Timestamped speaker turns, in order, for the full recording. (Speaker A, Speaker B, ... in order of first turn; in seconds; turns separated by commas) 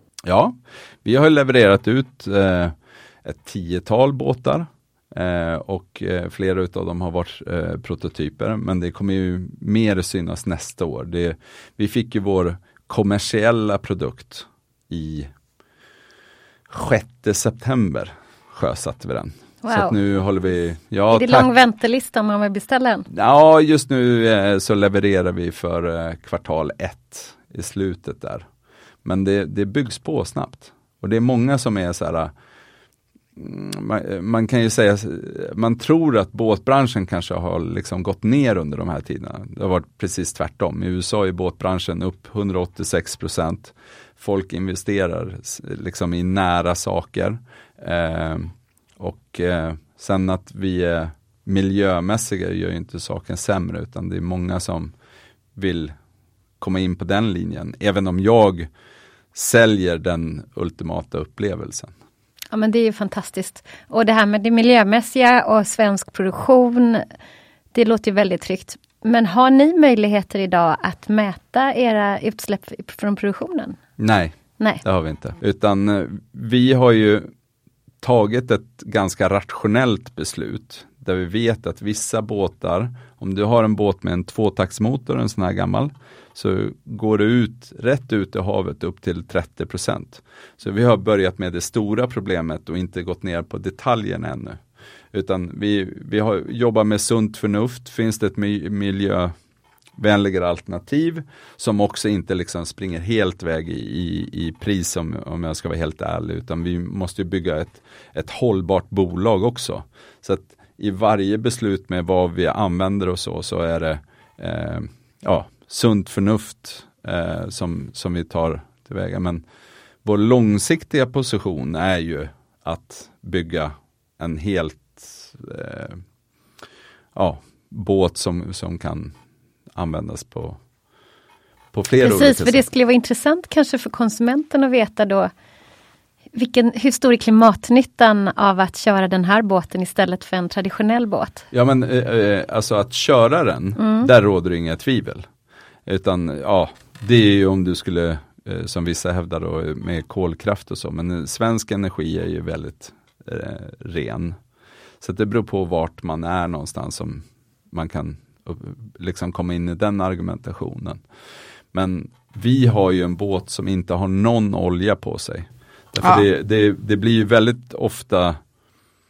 Speaker A: 0.2-15.3, Speaker A: 16.7-21.5, Speaker B: 19.6-20.0, Speaker B: 21.1-23.1, Speaker A: 23.1-28.4, Speaker A: 29.0-32.3, Speaker A: 33.4-54.9, Speaker A: 55.5-55.9, Speaker A: 56.6-58.7, Speaker A: 59.3-61.9, Speaker B: 62.5-67.0, Speaker B: 67.7-73.8, Speaker A: 74.0-77.3, Speaker A: 78.0-94.6, Speaker A: 95.1-99.3, Speaker A: 100.0-119.4, Speaker A: 120.0-126.0, Speaker A: 127.1-129.1, Speaker A: 129.7-130.6, Speaker A: 131.7-132.7, Speaker B: 132.0-135.3, Speaker B: 136.3-141.4, Speaker A: 141.5-145.2, Speaker B: 143.8-144.1, Speaker A: 145.8-154.3, Speaker A: 155.0-161.0, Speaker A: 161.7-168.4